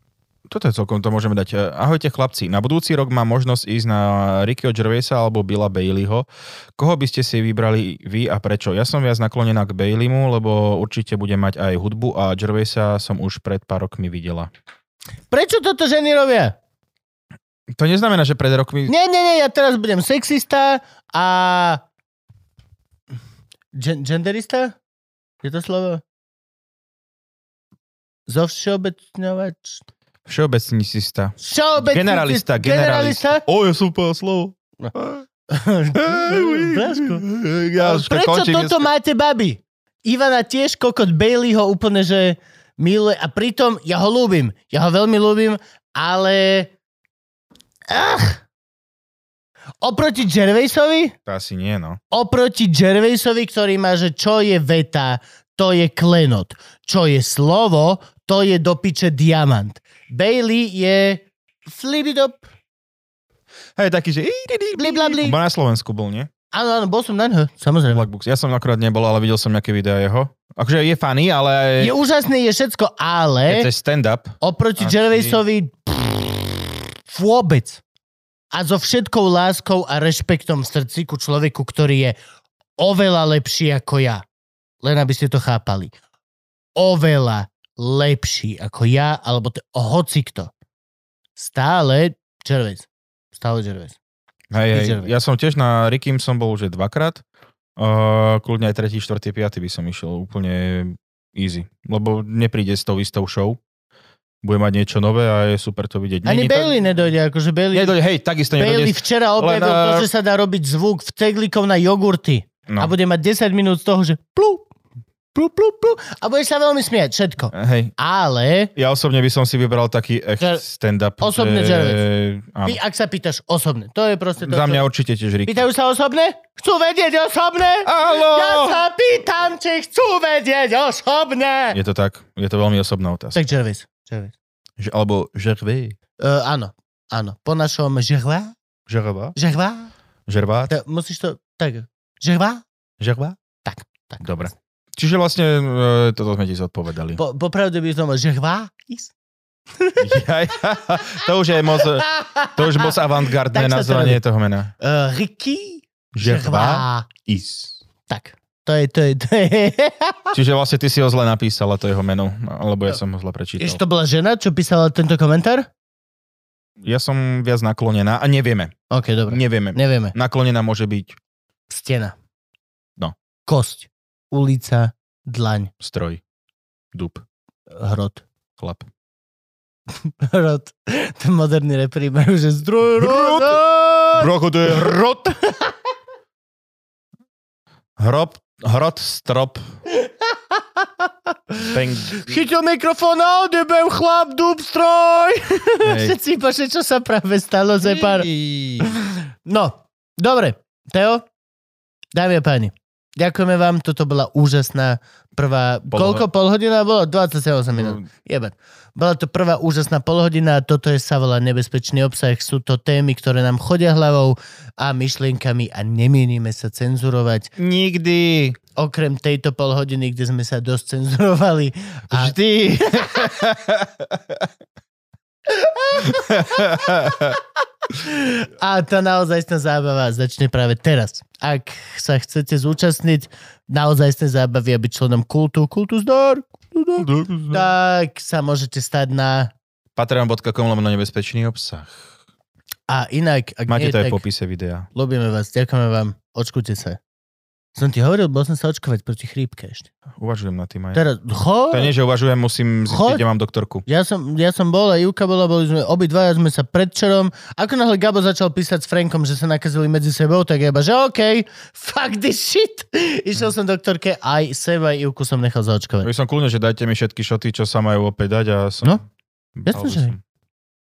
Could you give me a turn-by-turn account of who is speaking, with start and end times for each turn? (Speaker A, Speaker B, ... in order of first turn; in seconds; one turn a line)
Speaker A: 0.5-6.2
Speaker A: 6.8-14.5
Speaker B: 15.3-16.6
Speaker A: 17.7-18.9
Speaker B: 18.9-21.8
Speaker B: 23.7-24.8
Speaker B: 25.4-26.0
Speaker B: 28.3-29.8
Speaker A: 30.2-35.2
Speaker B: 31.4-33.4
Speaker B: 35.5-37.3
Speaker A: 35.9-38.9
Speaker B: 37.8-46.7
Speaker B: 47.9-48.4
Speaker B: 49.8-51.1
Speaker A: 51.3-52.0
Speaker B: 52.1-62.5
Speaker A: 63.8-66.3
Speaker B: 64.8-65.4
Speaker B: 66.5-68.1
Speaker A: 67.9-71.9
Speaker B: 71.8-73.7
Speaker A: 73.5-75.4
Speaker B: 74.4-77.8
Speaker B: 78.5-82.2
Speaker B: 82.8-84.2
Speaker B: 84.8-85.9
Speaker B: 86.8-90.5
Speaker B: 91.3-94.0
Speaker A: 94.5-97.2
Speaker B: 94.7-95.1
Speaker A: 97.8-103.6
Speaker A: 104.4-106.8
Speaker B: 106.2-107.9
Speaker A: 107.7-110.1
Speaker B: 108.6-114.7
Speaker A: 112.7-112.9
Speaker B: 115.3-118.7
Speaker A: 117.5-117.9
Speaker A: 118.8-122.8
Speaker B: 121.2-122.0
Speaker B: 122.6-124.8
Speaker A: 124.4-125.6
Speaker B: 125.5-131.8
Speaker A: 127.8-128.8
Speaker A: 131.7-133.4
Speaker B: 133.3-134.3
Speaker A: 134.8-135.9
Speaker B: 136.2-138.5
Speaker A: 138.9-139.3
Speaker B: 139.3-139.9
Speaker A: 140.3-140.7
Speaker B: 140.7-142.6
Speaker A: 143.0-143.4
Speaker B: 143.6-144.3
Speaker A: 144.2-147.2
Speaker B: 147.2-149.1
Speaker B: 149.8-150.1
Speaker A: 150.0-154.7
Speaker B: 152.0-154.2
Speaker B: 154.8-157.1
Speaker A: 156.1-157.8
Speaker B: 158.1-160.3
Speaker A: 160.3-163.8
Speaker B: 163.6-165.7
Speaker A: 166.8-168.8
Speaker B: 168.9-170.1
Speaker A: 169.3-171.2
Speaker B: 171.7-172.1
Speaker B: 173.4-175.7
Speaker A: 175.8-176.2
Speaker A: 176.9-177.2
Speaker B: 177.8-178.2
Speaker A: 178.6-178.8
Speaker B: 180.0-185.7
Speaker A: 183.0-183.6
Speaker A: 184.1-185.3
Speaker A: 188.0-189.6
Speaker B: 189.9-198.3
Speaker A: 191.7-192.3
Speaker A: 195.8-196.2
Speaker A: 197.8-198.9
Speaker B: 198.8-201.2
Speaker B: 202.1-217.5
Speaker A: 205.9-206.2
Speaker A: 207.7-208.0
Speaker A: 217.6-218.6
Speaker B: 218.8-223.3
Speaker A: 222.1-224.5
Speaker B: 225.5-227.3
Speaker A: 226.0-227.4
Speaker B: 227.9-239.5
Speaker A: 237.0-237.7
Speaker A: 239.9-242.0
Speaker B: 242.9-244.2
Speaker A: 243.7-244.9
Speaker B: 244.9-247.0
Speaker B: 247.7-249.9
Speaker A: 250.2-251.0
Speaker B: 250.9-251.9
Speaker A: 251.7-253.8
Speaker B: 252.9-253.2
Speaker B: 253.8-266.1
Speaker A: 266.0-269.0
Speaker A: 269.6-270.2
Speaker B: 269.6-270.1